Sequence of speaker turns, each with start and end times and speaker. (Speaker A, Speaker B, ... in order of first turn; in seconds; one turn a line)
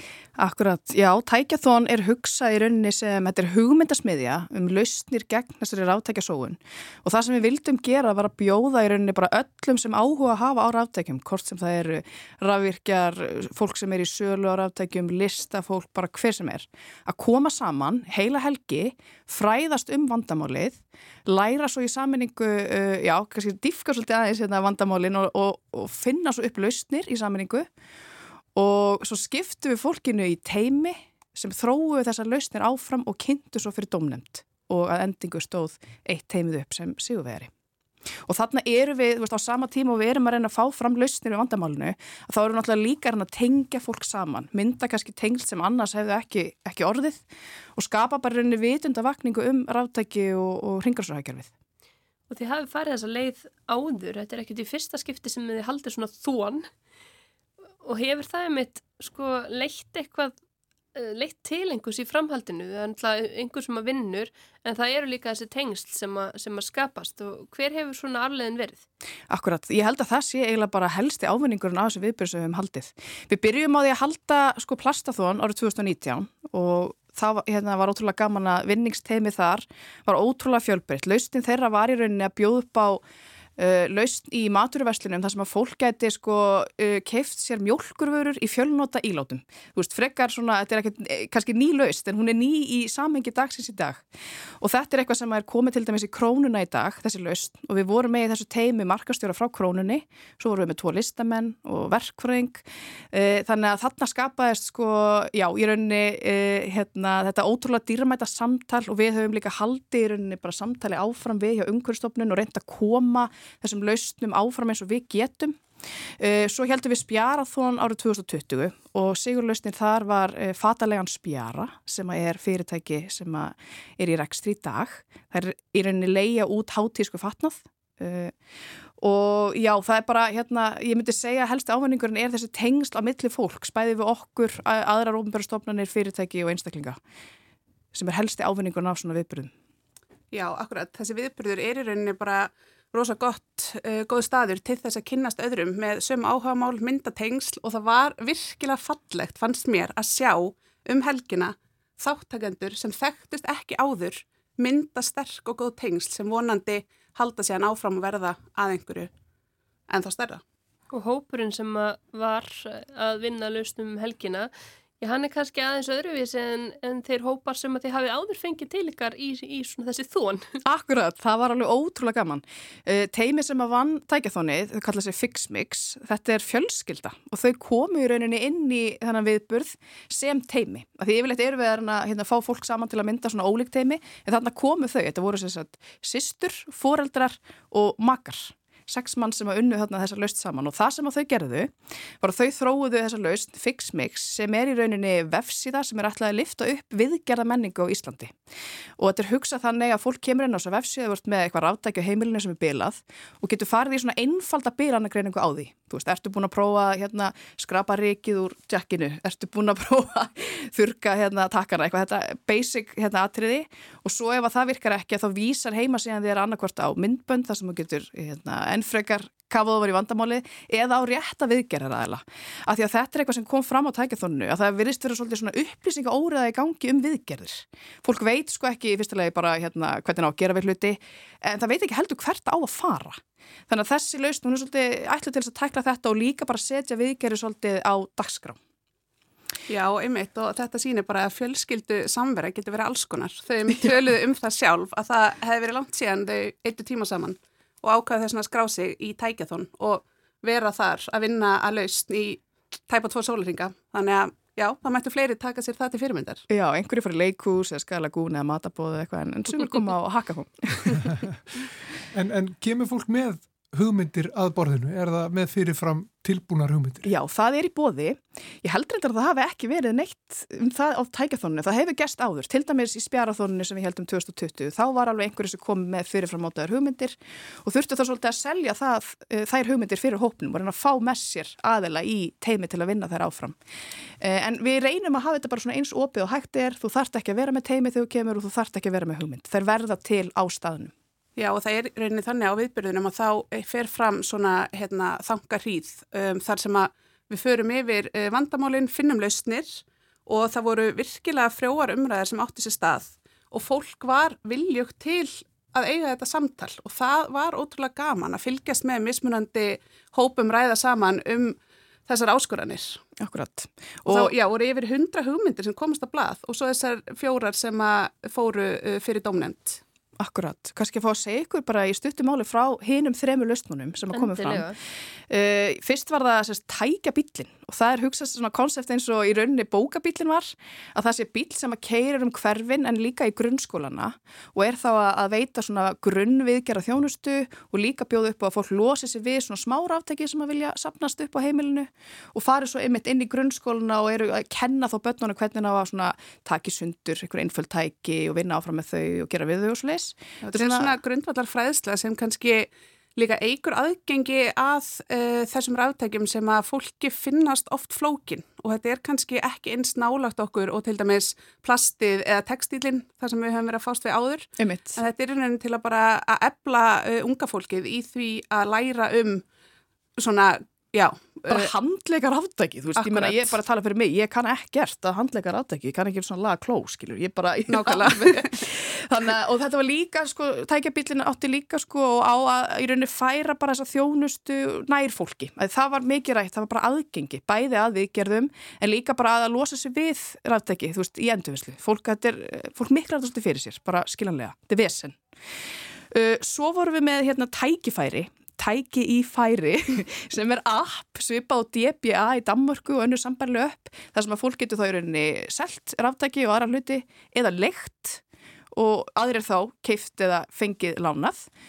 Speaker A: 0.4-27.7
Speaker A: 28.6-37.5
Speaker A: 38.2-47.2
Speaker A: 47.8-51.5
Speaker B: 52.3-56.7
Speaker B: 57.8-60.3
Speaker B: 61.0-68.8
Speaker A: 69.3-83.0
Speaker A: 83.6-94.0
Speaker A: 94.6-115.7
Speaker A: 116.2-128.3
Speaker A: 129.0-137.0
Speaker A: 137.9-139.5
Speaker C: 140.3-159.1
Speaker C: 159.9-160.4
Speaker B: 160.9-170.5
Speaker A: 170.6-198.3
Speaker A: 199.0-238.6
Speaker C: 239.7-256.4
Speaker A: 256.5-261.2
Speaker D: 262.1-267.1
Speaker A: 267.0-283.6
Speaker A: 284.2-290.9
Speaker C: 291.4-313.0
Speaker A: 313.2-314.3
Speaker C: 314.1-319.8
Speaker A: 320.2-324.8
Speaker B: 324.1-324.8
Speaker A: 325.3-351.0
Speaker C: 350.5-369.4
Speaker A: 364.6-365.0
Speaker C: 370.2-371.7
Speaker A: 371.5-395.2
Speaker C: 373.0-373.6
Speaker C: 377.7-378.6
Speaker A: 396.1-411.5